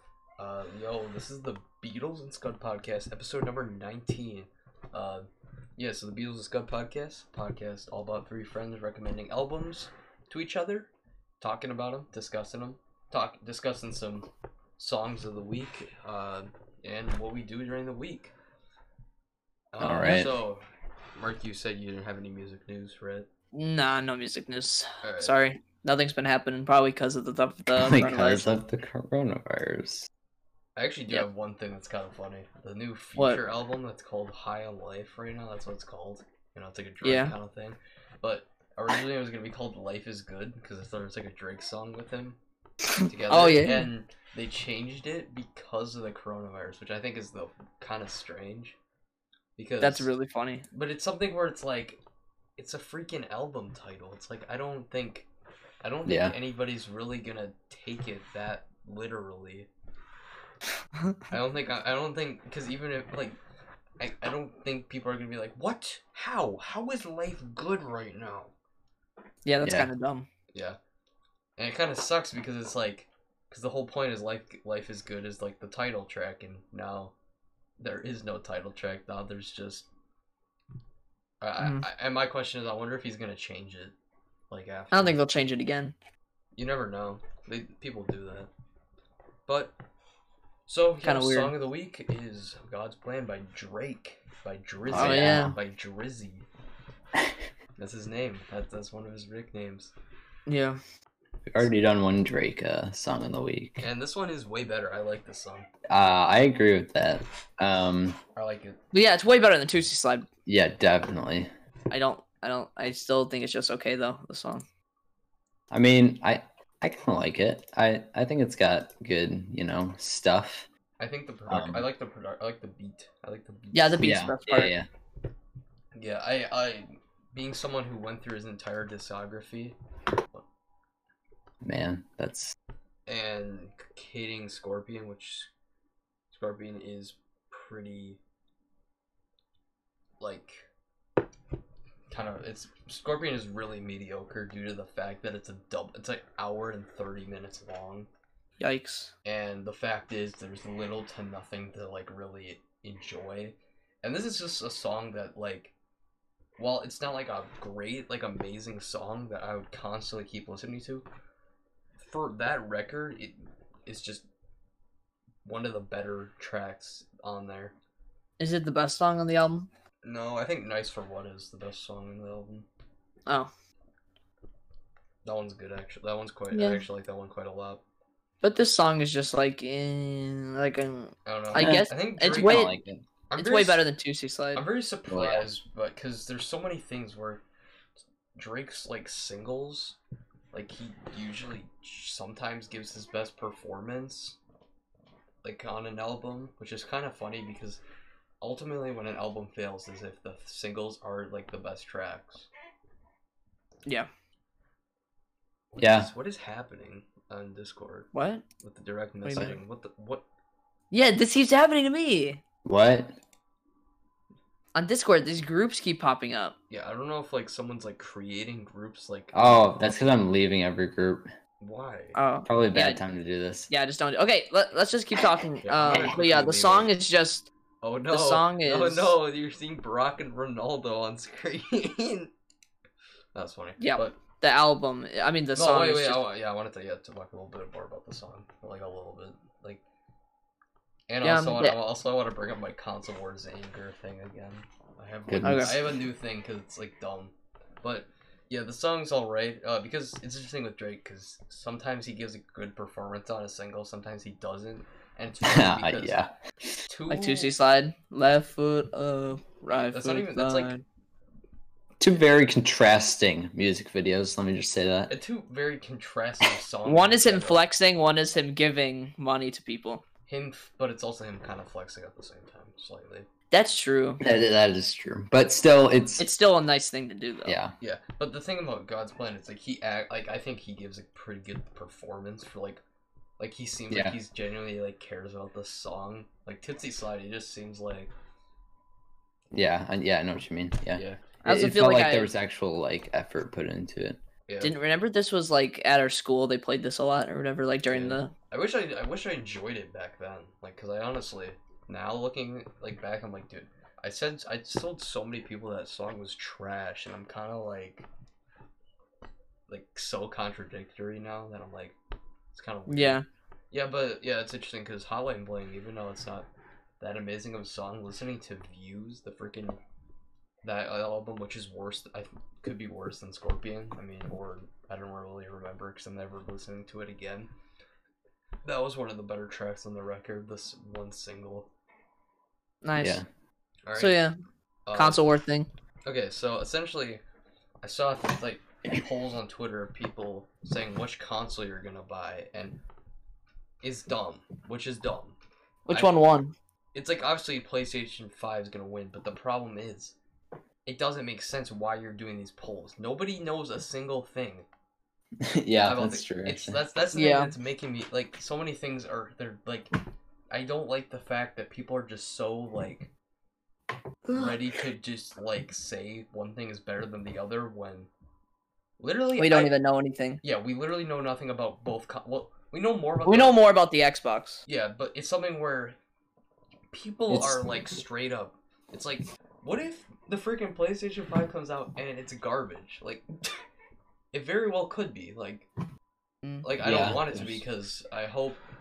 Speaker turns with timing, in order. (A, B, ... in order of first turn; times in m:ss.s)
0:00.4-0:05.2 A
0:05.8-0:18.3 A
0:19.7-0:20.6 A
0:19.8-0:20.3 B
0:21.2-0:23.3 A
0:23.5-0:28.5 C
0:25.0-0:25.4 A
0:27.8-0:30.1 B
0:30.8-0:42.4 A
0:33.2-0:33.4 C
0:37.0-0:37.3 C
0:42.8-0:43.9 C
0:43.0-0:48.8 A
0:49.6-0:50.1 A
0:49.8-0:50.6 C
0:50.7-0:52.0 A
0:52.6-0:55.3 A
0:55.8-0:59.7 A
0:56.0-0:56.3 B
1:01.0-1:01.2 C
1:01.3-1:03.4 A
1:04.0-1:08.5 A
1:09.4-1:10.3 C
1:09.6-1:09.9 B
1:11.6-1:17.1 A
1:17.8-1:19.9 A
1:21.4-1:23.9 A
1:21.6-1:21.8 C
1:24.5-1:25.2 A
1:24.9-1:25.9 C
1:26.6-1:28.5 A
1:29.5-1:29.7 A
1:30.7-1:36.4 A
1:31.0-1:31.5 C
1:34.9-1:35.5 B
1:34.9-1:35.5 C
1:37.8-1:39.9 A
1:40.5-1:40.8 C
1:41.5-1:43.8 B
1:43.8-1:45.7 A
1:45.9-1:48.2 B
1:48.3-1:48.8 A
1:48.9-1:50.3 C
1:50.4-1:51.5 B
1:51.9-1:54.6 C
1:55.7-2:00.7 B
2:01.0-2:04.0 A
2:01.5-2:01.8 B
2:03.7-2:04.7 C
2:04.0-2:04.8 B
2:05.9-2:09.8 A
2:11.6-2:12.6 B
2:13.1-2:15.5 A
2:16.3-2:18.2 A
2:20.2-2:20.6 A
2:22.1-2:28.1 A
2:28.6-2:29.1 C
2:29.2-2:35.7 A
2:36.6-2:41.0 A
2:42.0-2:44.2 A
2:45.4-2:47.7 A
2:48.4-2:49.7 C
2:50.0-2:52.6 A
2:55.2-2:57.8 A
2:56.5-2:56.8 C
2:58.4-3:02.7 C
3:01.2-3:02.7 A
3:01.6-3:03.0 B
3:03.3-3:03.8 A
3:03.4-3:04.7 C
3:04.5-3:07.4 A
3:05.1-3:05.4 B
3:08.3-3:10.0 A
3:10.5-3:14.4 A
3:15.4-3:17.8 A
3:18.4-3:22.5 A
3:25.7-3:28.1 A
3:25.8-3:26.1 B
3:28.1-3:28.4 C
3:28.6-3:30.2 A
3:29.2-3:29.6 C
3:30.9-3:32.4 C
3:32.6-3:33.2 B
3:34.7-3:36.5 C
3:36.7-3:39.7 A
3:39.3-3:41.3 B
3:41.6-3:42.2 A
3:42.1-3:43.0 C
3:42.4-3:43.7 B
3:43.7-3:47.5 C
3:45.6-3:46.9 A
3:47.8-3:52.3 A
3:48.1-3:49.1 C
3:53.3-3:54.2 A
3:53.8-3:56.2 C
3:55.5-3:59.8 A
4:01.1-4:16.2 A
4:01.2-4:01.8 C
4:05.3-4:05.9 B
4:05.4-4:05.8 C
4:15.4-4:16.8 B
4:16.9-4:17.5 A
4:17.1-4:20.8 C
4:19.9-4:20.7 A
4:22.0-4:25.1 B
4:25.1-4:27.6 A
4:26.8-4:30.0 C
4:30.3-4:33.3 A
4:33.5-4:34.2 C
4:34.2-4:36.2 B
4:36.2-4:37.6 C
4:37.4-4:37.7 B
4:37.8-4:42.8 A
4:43.4-4:48.1 A
4:43.9-4:44.2 B
4:49.5-4:54.2 B
4:51.0-4:51.3 A
4:51.4-4:52.3 C
4:54.5-4:54.7 A
4:54.6-4:58.3 C
4:57.9-5:08.0 A
5:09.7-5:12.0 A
5:12.5-5:16.5 A
5:12.9-5:13.2 C
5:17.0-5:19.8 A
5:20.6-5:27.5 A
5:28.6-5:31.7 A
5:32.8-5:33.2 C
5:33.0-5:33.2 B
5:33.9-5:34.2 A
5:33.9-5:34.4 C
5:34.8-5:35.2 A
5:34.9-5:35.7 C
5:36.0-5:37.2 A
5:37.8-5:42.8 A
5:43.8-5:45.4 A
5:45.9-5:46.5 C
5:45.9-5:46.2 A
5:46.9-5:50.1 A
5:50.8-5:54.7 A
5:55.4-5:56.8 B
5:55.8-5:59.9 A
5:57.1-5:57.5 C
6:00.5-6:03.1 A
6:04.3-6:08.1 A
6:09.0-6:09.7 A
6:09.4-6:10.4 C
6:10.4-6:13.6 A
6:13.2-6:14.6 C
6:14.6-6:16.0 A
6:16.9-6:23.2 A
6:17.3-6:17.6 B
6:24.3-6:25.7 A
6:26.4-6:27.1 C
6:26.6-6:28.6 A
6:26.8-6:27.6 B